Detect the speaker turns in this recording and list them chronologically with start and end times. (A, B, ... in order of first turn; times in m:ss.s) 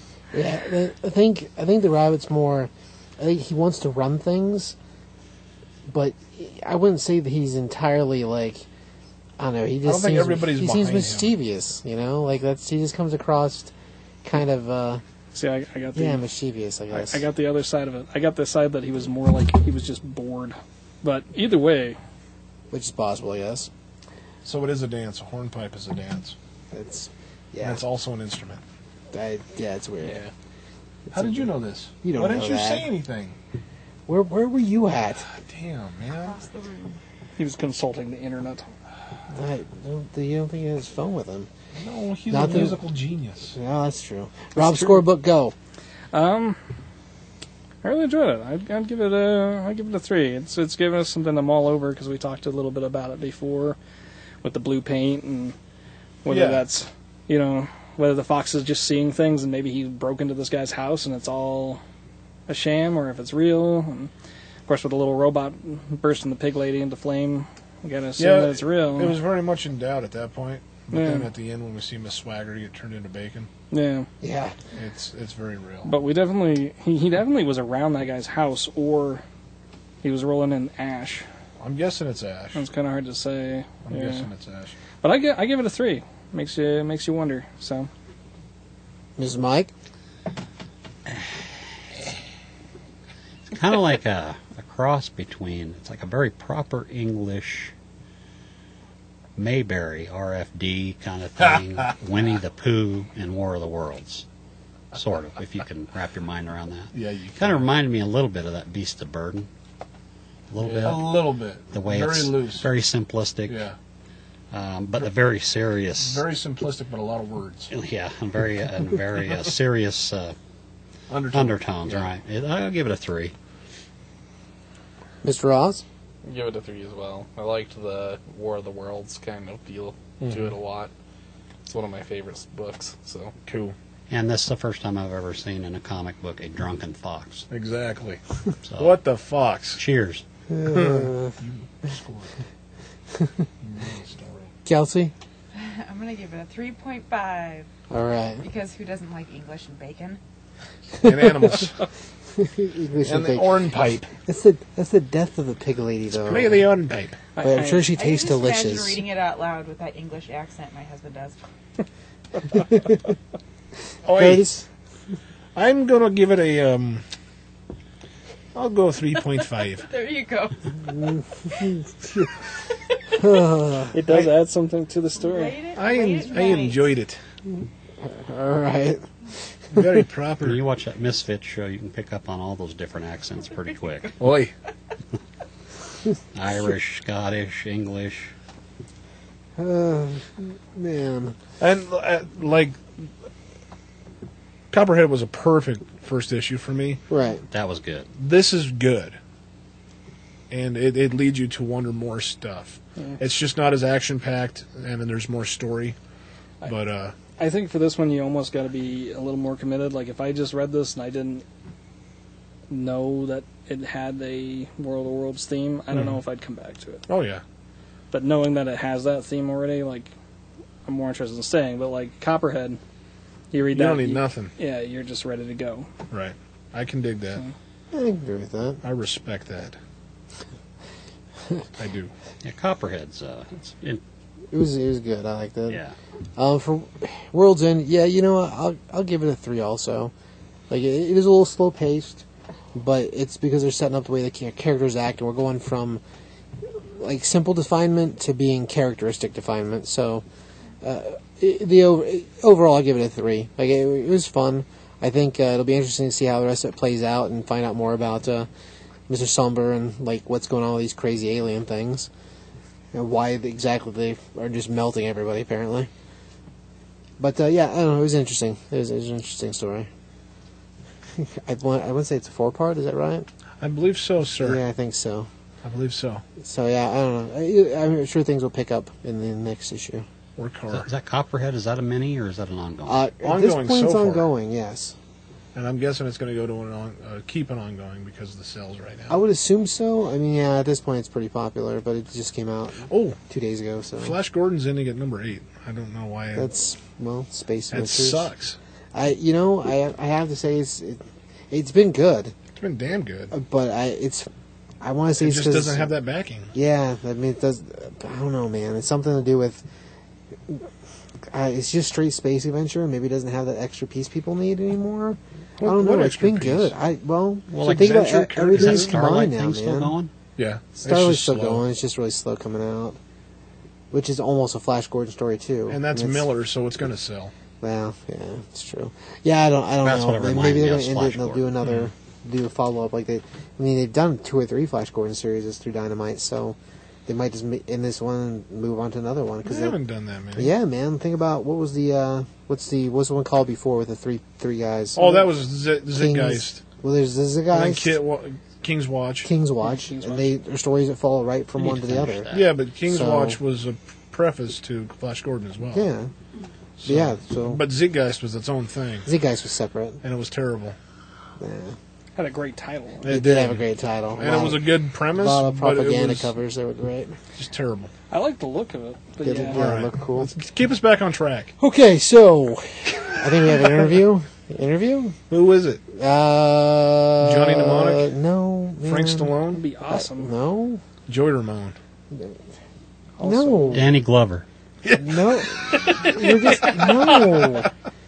0:00.3-0:04.8 A
0:05.8-0:08.7 A
0:09.4-0:15.0 A
0:09.8-0:11.3 B
0:15.3-0:16.2 C
0:15.9-0:17.2 A
0:16.9-0:22.0 C
0:22.7-0:23.7 A
0:24.4-0:26.4 B
0:26.7-0:27.8 A
0:27.6-0:28.6 B
0:29.1-0:30.2 A
0:31.1-0:32.9 A
0:31.1-0:33.4 B
0:34.1-0:35.2 A
0:35.3-0:36.4 B
0:36.2-0:37.0 D
0:37.4-0:38.7 C
0:39.3-0:41.5 A
0:41.8-0:43.5 B
0:42.3-0:42.8 A
0:43.5-0:45.5 A
0:44.6-0:45.0 C
0:46.1-0:46.6 C
0:47.8-0:53.8 C
0:54.4-0:55.5 C
0:56.2-1:01.8 C
0:56.3-0:56.6 B
1:02.5-1:04.1 C
1:04.7-1:09.2 C
1:08.2-1:13.5 B
1:10.9-1:11.3 C
1:13.7-1:14.1 C
1:14.2-1:14.6 A
1:14.7-1:15.9 B
1:15.8-1:19.2 C
1:20.0-1:21.2 C
1:21.6-1:22.6 B
1:22.5-1:24.3 C
1:23.8-1:24.8 B
1:25.0-1:27.9 C
1:29.2-1:29.7 A
1:33.5-1:37.7 E
1:39.4-1:44.2 E
1:41.4-1:42.0 B
1:44.9-1:49.5 E
1:46.9-1:47.8 B
1:50.5-1:53.6 E
1:50.6-1:52.7 B
1:53.4-1:53.7 B
1:54.5-1:56.2 E
1:56.0-1:57.7 B
1:57.7-2:00.3 E
2:01.1-2:02.1 B
2:01.3-2:03.3 E
2:05.2-2:05.8 A
2:06.2-2:10.9 F
2:10.2-2:10.5 B
2:11.6-2:13.3 F
2:13.4-2:13.7 B
2:14.1-2:17.5 E
2:17.5-2:18.2 B
2:18.6-2:19.0 E
2:18.8-2:19.8 B
2:19.8-2:20.2 E
2:20.5-2:21.3 A
2:20.6-2:22.3 B
2:23.6-2:24.5 B
2:24.6-2:25.1 A
2:25.5-2:27.7 D
2:27.9-2:28.4 A
2:28.4-2:30.2 D
2:31.0-2:31.8 B
2:31.1-2:31.6 A
2:32.4-2:36.6 A
2:33.0-2:34.1 B
2:36.1-2:37.2 B
2:37.3-2:37.9 C
2:37.4-2:39.0 A
2:37.8-2:41.4 D
2:44.0-2:44.5 B
2:44.1-2:44.6 A
2:45.5-2:47.0 B
2:48.5-2:49.9 B
2:49.7-2:51.1 D
2:50.9-2:51.8 A
2:53.2-2:53.9 A
2:53.9-2:55.6 C
2:55.2-2:56.9 D
2:55.7-2:57.2 B
2:58.0-2:59.0 A
2:59.7-3:00.6 B
2:59.8-3:00.0 A
3:00.4-3:04.2 E
3:04.2-3:04.5 B
3:06.3-3:08.3 E
3:09.6-3:11.4 A
3:11.6-3:12.8 B
3:14.7-3:17.0 B
3:17.1-3:17.4 A
3:17.5-3:18.1 E
3:18.2-3:19.2 B
3:20.5-3:26.0 B
3:26.6-3:27.1 B
3:27.4-3:31.4 C
3:32.7-3:37.0 C
3:35.9-3:36.2 B
3:37.1-3:37.4 B
3:38.1-3:40.1 C
3:40.8-3:42.8 C
3:43.5-3:45.9 C
3:43.7-3:44.5 B
3:46.1-3:47.4 B
3:47.9-3:48.8 A
3:48.8-3:49.8 B
3:51.8-3:52.1 B
3:52.4-3:54.0 E
3:54.5-3:55.8 A
3:55.7-3:55.9 E
3:56.4-4:00.1 A
4:00.7-4:06.0 A
4:06.9-4:10.2 A
4:10.8-4:18.5 A
4:19.1-4:22.1 A
4:22.9-4:25.9 A
4:27.2-4:29.9 A
4:31.2-4:33.3 A
4:33.6-4:34.6 B
4:34.4-4:35.3 A
4:35.6-4:36.2 B
4:36.4-4:40.0 A
4:40.4-4:40.9 B
4:40.7-4:43.1 E
4:42.8-4:45.0 A
4:43.2-4:44.2 B
4:45.5-4:49.2 B
4:49.1-4:54.2 A
4:52.9-4:53.2 B
4:54.0-4:56.5 B
4:56.3-4:58.3 A
4:57.7-4:58.6 B
4:58.9-5:02.3 A
5:02.5-5:03.3 B
5:03.3-5:04.3 A
5:04.8-5:05.9 A
5:05.2-5:06.5 B
5:06.5-5:09.6 A
5:11.3-5:19.9 A
5:15.6-5:16.7 B
5:17.5-5:19.0 B
5:18.5-5:20.1 E
5:20.4-5:21.6 B
5:20.8-5:23.0 A
5:23.9-5:26.3 A
5:25.7-5:27.3 B
5:27.6-5:39.8 A
5:29.8-5:31.5 E
5:31.6-5:31.9 B
5:39.4-5:40.5 B
5:40.3-5:45.3 A
5:45.0-5:46.6 B
5:45.9-5:48.0 A
5:47.5-5:49.3 B
5:49.2-5:52.3 A
5:49.6-5:50.3 C
5:51.6-5:52.5 E
5:52.3-5:55.8 B
5:52.8-5:53.4 A
5:55.7-5:56.1 A
5:56.8-5:59.1 B
5:56.8-5:57.6 A
5:59.0-6:00.0 A
6:00.0-6:00.8 B
6:01.4-6:01.8 A
6:02.2-6:03.1 C
6:03.0-6:06.3 B
6:03.0-6:07.2 A
6:07.4-6:07.9 B
6:08.1-6:09.6 C
6:09.2-6:10.3 A
6:09.5-6:11.5 B
6:11.6-6:15.2 A
6:15.3-6:15.8 B
6:15.9-6:19.4 A
6:17.2-6:18.1 B
6:18.9-6:19.6 B
6:19.5-6:20.3 C
6:19.9-6:20.8 A
6:21.1-6:21.8 B
6:22.1-6:22.4 A
6:23.2-6:23.8 C
6:23.2-6:23.9 A
6:23.7-6:24.4 E
6:24.8-6:26.3 B
6:24.9-6:27.7 A
6:26.8-6:27.3 B